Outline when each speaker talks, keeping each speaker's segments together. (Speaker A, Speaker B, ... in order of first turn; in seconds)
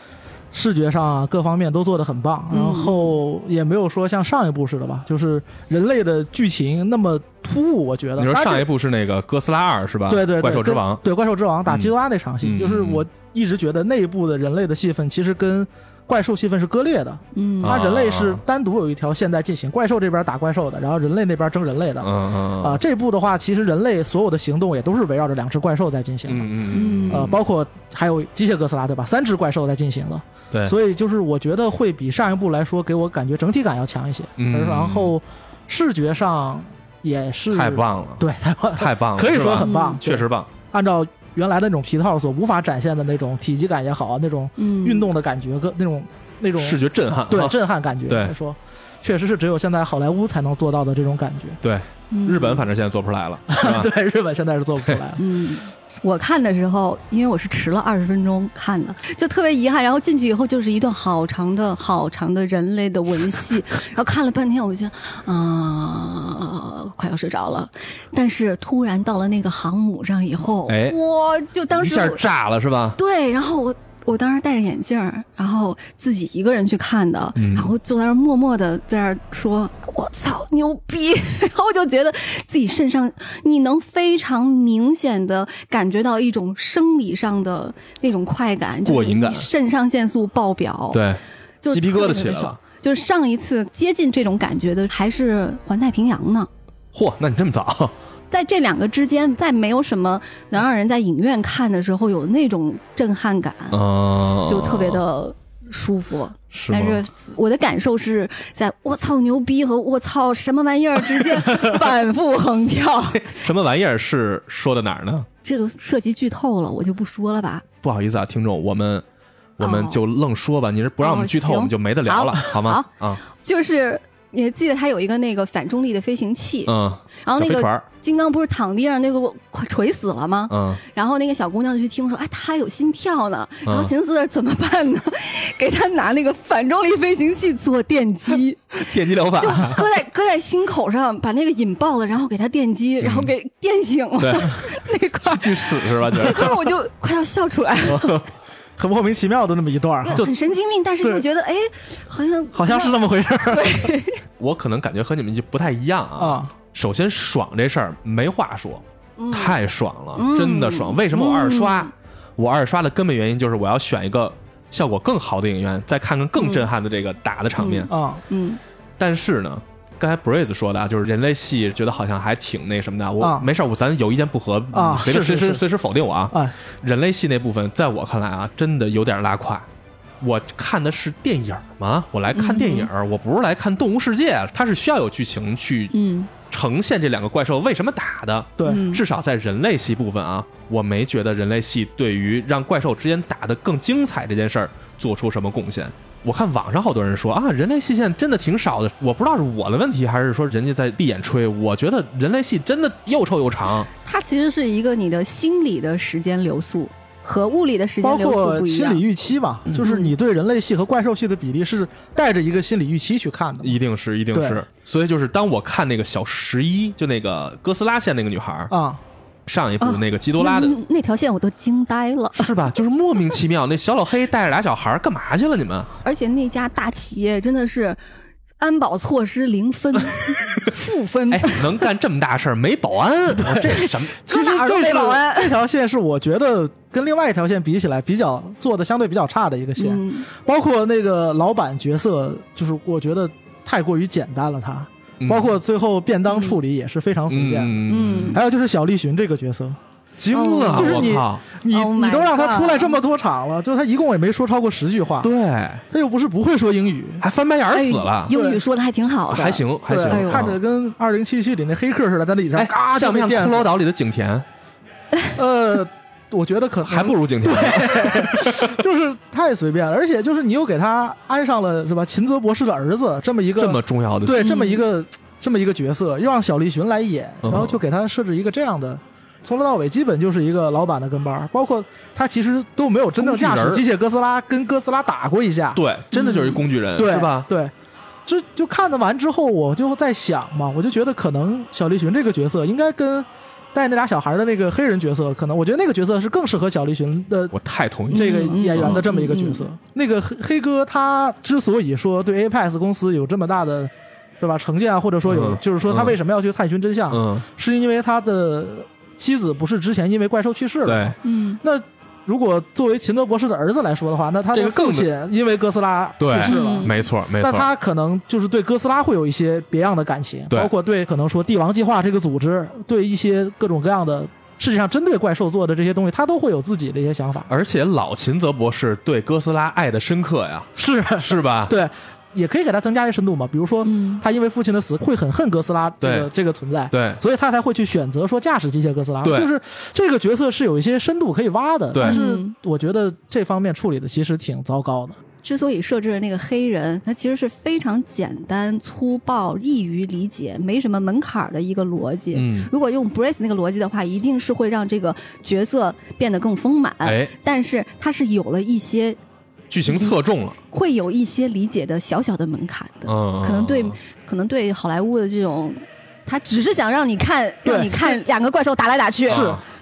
Speaker A: 0.5-8.7, 10.1-51.6, 53.5-55.2, 148.8-150.2, 152.5-153.9, 156.2-156.5, 167.9-168.2, 173.2-173.5, 174.7-175.6, 176.3-176.6, 188.6-188.8, 208.0-213.8, 214.3-214.6, 218.7-219.0, 233.4-255.3, 255.9-257.2, 258.3-258.6, 259.9-263.7, 265.4-285.8, 287.0-287.7, 288.3-297.5, 298.1-327.5, 330.8-345.2, 367.6-368.2, 369.3-369.6
Speaker B: 2.5-3.2, 17.4-17.7, 26.7-27.3, 39.6-40.0, 44.6-45.1, 52.1-52.6, 55.2-72.2, 73.0-91.0, 91.6-96.5, 98.3-103.8, 104.5-113.4, 115.4-117.7, 119.6-120.0, 121.0-148.2, 150.1-154.2, 159.2-159.6, 160.2-161.9, 166.4-166.7, 167.6-168.6, 182.3-182.9, 185.9-186.3, 188.6-189.0, 204.0-209.0, 209.7-210.1, 219.8-222.5, 226.0-228.0, 228.6-231.8, 233.6-235.6, 239.8-240.3, 246.3-246.6, 247.9-248.4, 250.3-253.0, 257.7-260.5, 274.4-274.8, 286.1-286.6, 298.1-299.7, 311.2-311.6, 316.4-316.9, 333.8-334.2, 342.0-342.5, 345.4-359.2, 359.9-360.1, 360.7-369.5
Speaker C: 8.2-11.0, 12.4-13.1, 17.6-18.4, 22.0-22.8, 26.3-27.4, 34.4-35.1, 37.5-40.5, 46.6-47.6, 48.1-48.4, 51.6-53.9, 70.7-71.0, 71.8-73.0, 77.4-77.7, 88.8-89.5, 90.9-92.6, 96.9-97.9, 103.7-105.0, 106.5-107.0, 113.2-115.3, 117.8-119.0, 119.6-123.2, 126.7-127.9, 130.5-130.8, 133.7-133.9, 138.8-139.8, 143.0-143.3, 144.2-144.6, 145.2-146.6, 147.9-148.3, 154.4-167.9, 169.0-179.7, 180.2-185.9, 186.5-203.9, 213.6-218.7, 219.5-220.8, 222.3-225.9, 231.3-234.2, 245.2-245.6, 247.3-248.4, 250.2-251.4, 255.2-255.8, 257.2-258.3, 259.3-260.6, 262.6-264.5, 266.9-268.8, 273.6-274.5, 277.4-277.8, 283.2-283.9, 285.8-287.5, 297.5-299.1, 305.3-306.2, 307.1-307.5, 310.9-311.2, 314.5-315.1, 316.2-317.7, 327.5-331.8, 336.0-336.3, 336.9-337.2, 339.2-339.5, 341.9-342.2, 352.3-352.7, 357.0-357.3, 359.7-360.6, 363.1-364.0, 369.3-369.6